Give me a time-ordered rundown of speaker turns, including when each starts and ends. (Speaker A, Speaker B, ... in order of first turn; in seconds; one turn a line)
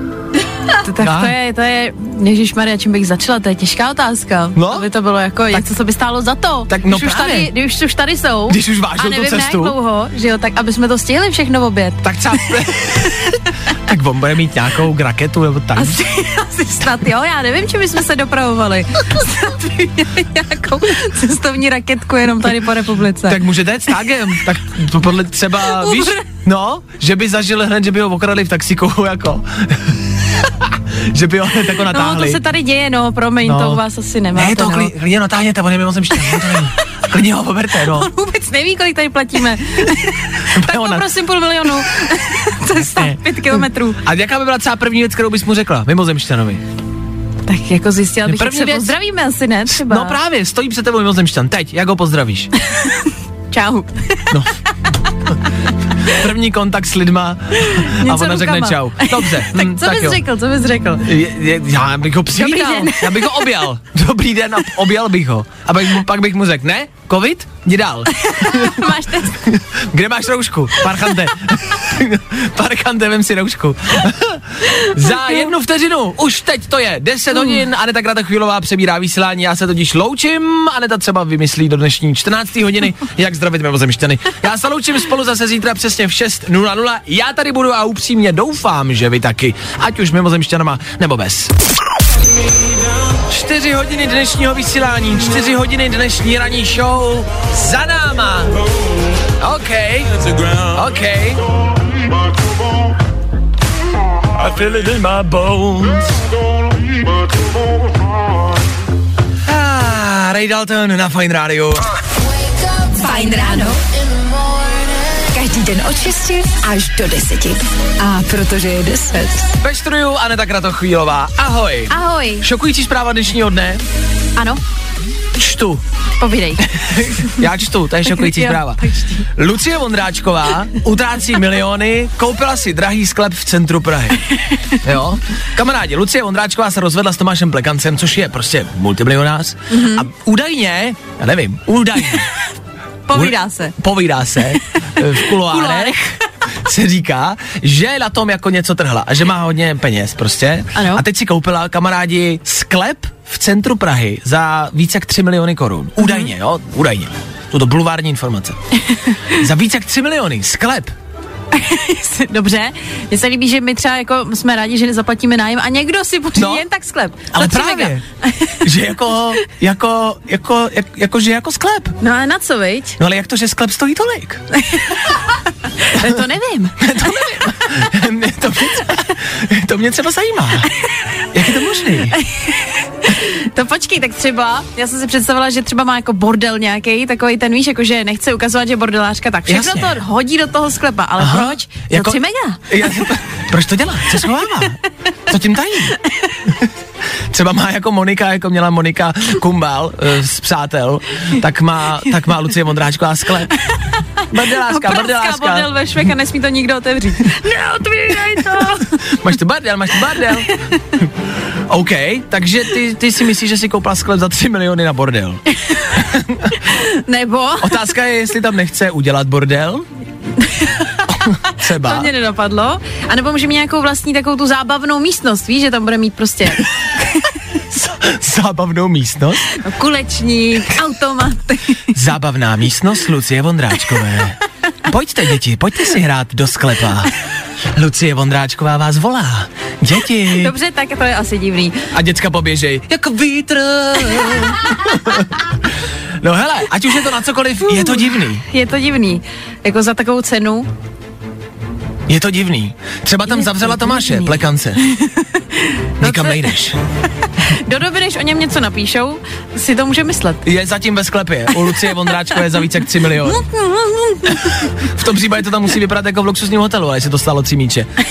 Speaker A: 0.7-12.0
Speaker B: 1.0-1.3
Speaker B: 4.5-4.8
Speaker B: 6.7-7.5
Speaker B: 8.5-9.8
Speaker B: 12.0-16.0
Speaker A: 15.8-23.4
Speaker B: 23.3-32.4
Speaker A: 25.6-26.2
Speaker A: 31.9-34.9
Speaker B: 33.4-33.8
Speaker B: 34.3-38.1
Speaker A: 36.3-36.5
Speaker A: 37.8-44.0
Speaker B: 40.5-41.1
Speaker B: 42.8-46.6
Speaker A: 47.4-50.2
Speaker B: 48.2-48.9
Speaker B: 49.7-52.5
Speaker A: 52.6-54.4
Speaker B: 56.0-60.2
Speaker A: 57.6-61.1
Speaker B: 61.0-68.8
Speaker A: 62.3-63.3
Speaker A: 68.1-69.4
Speaker B: 69.4-91.5
Speaker B: 93.3-98.5
Speaker B: 99.4-101.4
Speaker B: 104.3-106.2
Speaker B: 109.5-111.9
Speaker C: 112.9-113.8
Speaker C: 115.3-119.5
Speaker B: 119.6-123.8
Speaker A: 121.9-122.5
Speaker A: 124.3-124.6
Speaker B: 125.3-125.8
Speaker A: 126.2-127.2
Speaker B: 126.7-128.8
Speaker A: 128.0-129.2
Speaker B: 129.3-134.2
Speaker B: 134.8-142.3
Speaker A: 139.7-140.1
Speaker A: 143.1-143.7
Speaker B: 143.1-145.9
Speaker A: 145.0-146.3
Speaker B: 146.6-158.6
Speaker A: 150.7-151.0
Speaker A: 156.0-156.3
Speaker A: 158.9-159.2
Speaker B: 159.3-160.9
Speaker A: 161.5-168.6
Speaker B: 166.3-166.7
Speaker B: 167.3-168.0
Speaker B: 168.6-172.0
Speaker A: 172.0-172.9
Speaker B: 173.0-174.4
Speaker A: 174.5-175.2
Speaker A: 175.7-176.8
Speaker B: 176.8-180.7
Speaker B: 181.3-182.2
Speaker A: 182.1-192.7
Speaker B: 189.5-190.0
Speaker B: 191.2-196.0
Speaker B: 197.3-203.5
Speaker B: 204.3-205.7
Speaker A: 204.6-209.0
Speaker B: 208.9-211.1
Speaker B: 211.7-216.5
Speaker A: 215.7-216.0
Speaker A: 216.5-217.8
Speaker B: 217.6-219.8
Speaker A: 220.5-226.7
Speaker B: 221.1-222.1
Speaker B: 227.7-229.5
Speaker A: 229.5-231.8
Speaker B: 231.9-237.1
Speaker B: 237.7-240.5
Speaker A: 240.3-241.8
Speaker B: 241.9-245.4
Speaker B: 246.2-248.4
Speaker A: 247.7-250.7
Speaker B: 252.1-254.8
Speaker A: 253.3-256.5
Speaker B: 256.0-256.8
Speaker A: 257.2-260.4
Speaker B: 260.4-263.4
Speaker A: 263.2-264.4
Speaker B: 264.2-267.9